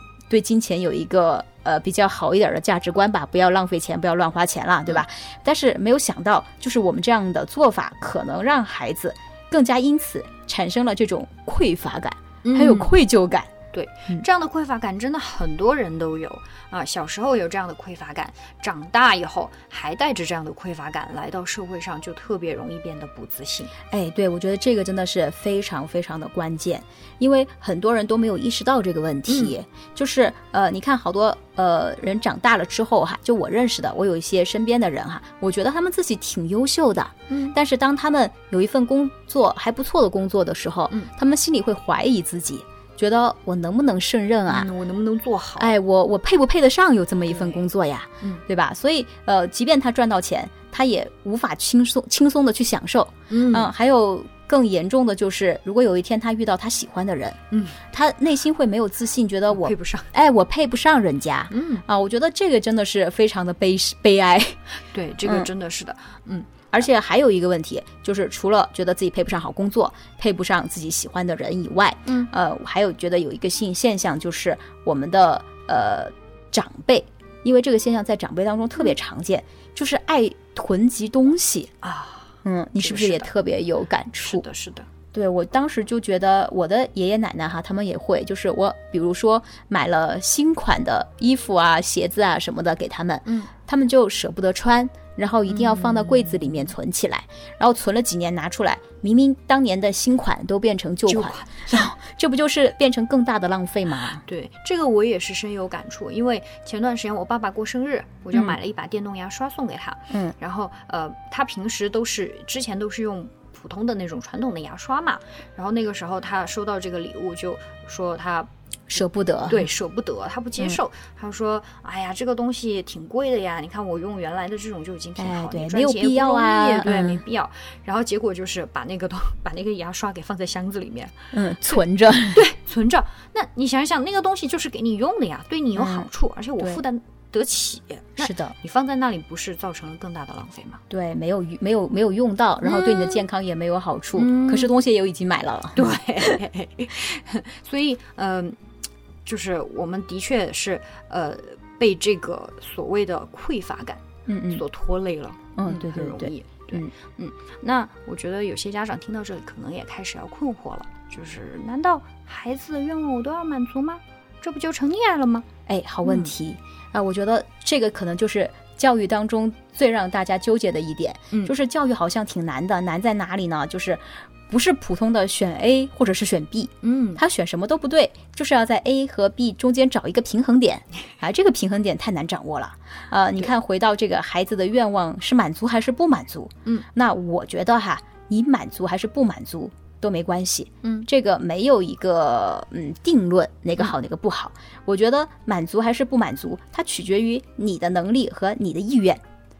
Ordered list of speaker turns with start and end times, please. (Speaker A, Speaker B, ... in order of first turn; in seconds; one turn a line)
Speaker A: 0.3-13.5
Speaker B: 12.4-12.9
Speaker B: 13.7-23.7
Speaker A: 23.9-44.7
Speaker B: 29.3-29.5
Speaker B: 37.3-37.5
Speaker B: 44.5-45.7
Speaker A: 45.6-57.4
Speaker B: 47.3-47.6
Speaker B: 53.3-53.7
Speaker B: 57.5-57.8
Speaker A: 57.9-64.6
Speaker B: 59.5-60.1
Speaker B: 61.5-61.8
Speaker B: 64.9-66.6
Speaker A: 65.2-65.5
Speaker A: 66.7-81.7
Speaker B: 72.0-72.3
Speaker B: 81.8-83.3
Speaker A: 82.4-84.4
Speaker B: 84.2-84.9
Speaker A: 85.1-104.2
Speaker B: 93.2-93.5
Speaker B: 95.5-96.6
Speaker B: 101.0-101.7
Speaker B: 104.2-118.5
Speaker A: 118.9-119.7
Speaker B: 119.5-131.8
Speaker A: 125.2-127.2
Speaker A: 131.3-132.4
Speaker B: 132.3-140.8
Speaker A: 135.7-136.8
Speaker A: 138.2-138.5
Speaker A: 140.9-146.4
Speaker B: 142.6-143.2
Speaker B: 144.1-144.7
Speaker B: 145.7-148.6
Speaker B: 149.2-165.5
Speaker A: 154.3-154.6
Speaker A: 155.6-156.9
Speaker A: 165.7-199.2
Speaker B: 166.0-166.3
Speaker B: 176.8-177.2